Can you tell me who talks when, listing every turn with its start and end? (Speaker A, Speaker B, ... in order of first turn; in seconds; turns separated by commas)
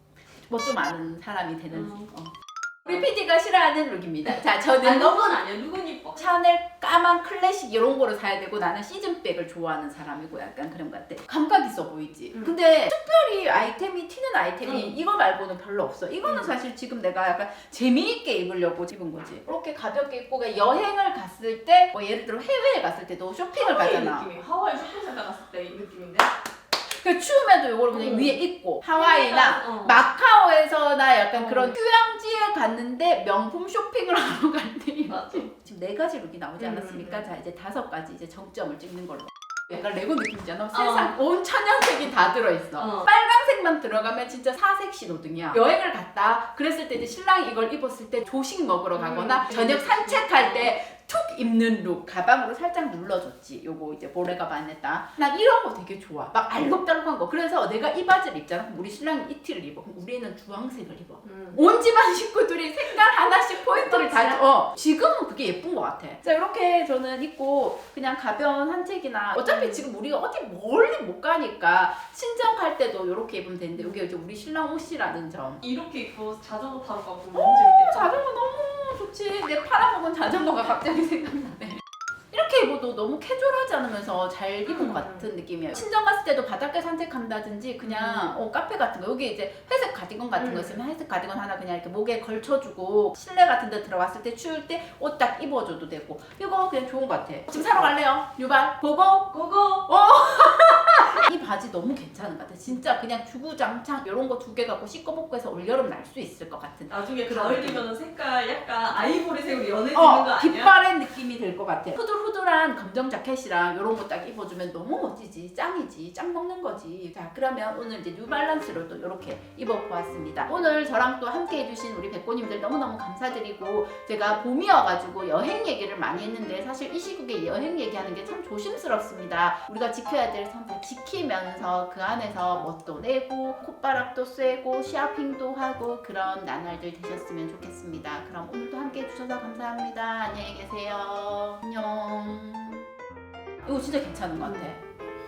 Speaker A: 0.5-2.3, Speaker B: 1.7-2.1, Speaker A: 2.9-5.4, Speaker B: 4.8-6.3, Speaker A: 6.2-24.2, Speaker B: 14.6-14.9, Speaker B: 16.2-16.5, Speaker B: 23.5-26.3, Speaker A: 26.9-75.6, Speaker B: 27.9-28.4, Speaker B: 28.9-30.1, Speaker B: 31.3-31.8, Speaker B: 35.1-35.5, Speaker B: 36.6-37.2, Speaker B: 40.7-41.1, Speaker B: 42.8-43.1, Speaker B: 49.0-50.7, Speaker B: 61.2-61.6, Speaker B: 63.7-64.4, Speaker B: 69.3-69.9, Speaker B: 73.8-74.1, Speaker B: 75.6-78.1, Speaker A: 77.3-107.8, Speaker B: 84.7-85.2, Speaker B: 87.8-88.4, Speaker B: 90.4-90.8, Speaker B: 97.5-97.9, Speaker B: 99.3-99.8, Speaker B: 106.9-110.7, Speaker A: 109.9-142.9, Speaker A: 143.6-144.8